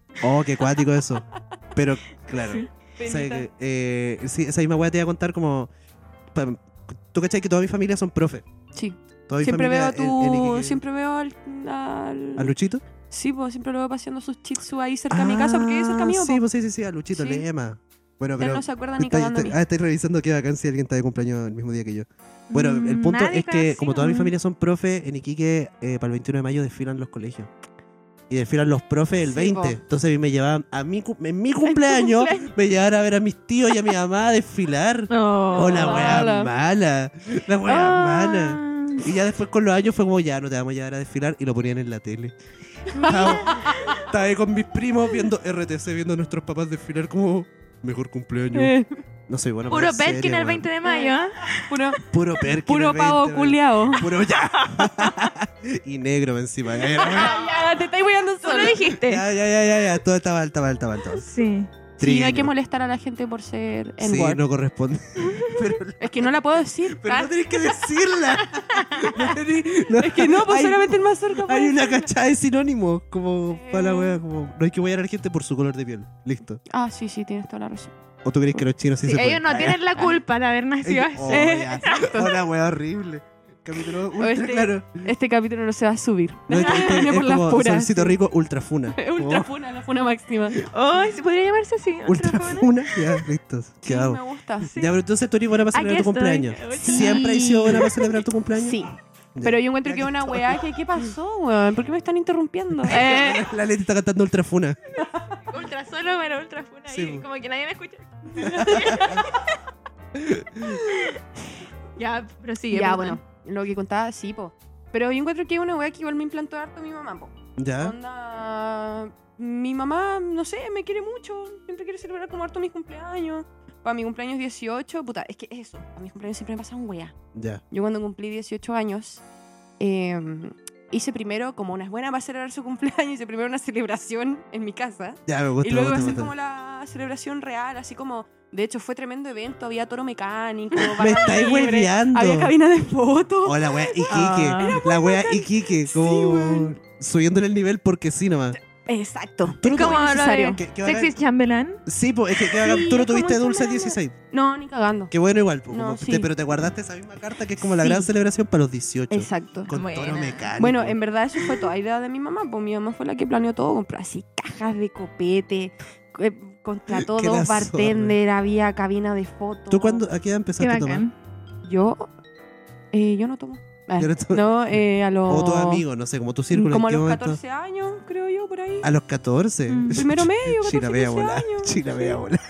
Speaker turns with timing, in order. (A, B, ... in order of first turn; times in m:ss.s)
0:00.2-0:05.7 A
0:02.4-0:02.7 B
0:03.0-0:03.5 C
0:06.3-0:08.5 A
0:08.7-0:12.5 C
0:09.3-0:10.8 A
0:12.4-0:12.8 A
0:13.1-0:16.4 C
0:15.1-0:27.5 A
0:17.1-0:17.4 C
0:18.4-0:19.6 C
0:22.5-0:24.3 B
0:28.3-0:42.3 A
0:29.2-0:29.8 C
0:31.6-0:32.5 C
0:35.1-0:36.3 B
0:35.7-0:36.5 C
0:37.7-0:39.1 B
0:42.9-0:44.0 B
0:43.0-0:43.8 C
0:43.0-0:48.8 A
0:48.5-0:48.9 C
0:49.3-0:50.6 A
0:49.7-0:51.7 B
0:50.8-0:51.2 C
0:51.7-0:54.1 C
0:52.1-0:57.6 A
0:54.5-0:55.2 B
0:56.9-0:58.8 C
0:58.4-0:59.2 B
0:58.9-1:01.3 A
1:01.2-1:01.7 B
1:02.0-1:02.5 A
1:02.0-1:04.4 C
1:04.0-1:16.6 A
1:05.2-1:05.6 B
1:06.0-1:07.4 C
1:08.7-1:09.1 B
1:09.9-1:12.1 C
1:13.5-1:14.2 C
1:16.7-1:17.9 C
1:18.2-1:19.9 A
1:19.0-1:22.2 B
1:20.8-1:25.1 A
1:21.2-1:22.3 C
1:24.2-1:28.2 C
1:26.5-1:29.5 A
1:26.6-1:27.0 B
1:29.0-1:30.6 C
1:30.7-1:33.0 B
1:32.1-1:38.8 A
1:33.8-1:34.8 C
1:35.7-1:37.3 B
1:36.7-1:43.5 C
1:39.4-1:40.6 A
1:42.8-1:44.8 A
1:42.9-1:43.4 B
1:45.5-1:49.6 B
1:46.9-1:47.2 A
1:48.4-1:49.2 A
1:48.4-1:49.2 C
1:50.2-1:50.8 A
1:50.8-1:51.2 B
1:52.0-1:53.2 B
1:52.7-2:07.1 C
1:57.6-1:58.0 A
2:07.3-2:07.6 A
2:07.7-2:09.2 C
2:09.8-2:26.8 C
2:15.3-2:16.3 A
2:21.0-2:22.5 A
2:23.4-2:28.6 A
2:24.1-2:24.8 B
2:28.7-2:30.6 C
2:29.6-2:31.1 A
2:29.6-2:31.8 B
2:31.9-2:34.2 A
2:32.4-2:35.1 C
2:35.1-2:41.0 A
2:35.7-2:36.3 C
2:37.6-2:38.1 C
2:39.1-2:39.7 C
2:39.7-2:40.5 B
2:40.6-2:50.0 C
2:46.9-2:48.2 A
2:49.7-2:51.0 A
2:50.6-2:51.1 B
2:51.6-2:52.1 C
2:52.9-2:55.8 C
2:54.0-2:54.4 A
2:55.3-2:57.4 A
2:56.5-2:58.9 C
2:58.8-3:02.4 A
2:59.7-3:00.0 B
2:59.9-3:01.8 C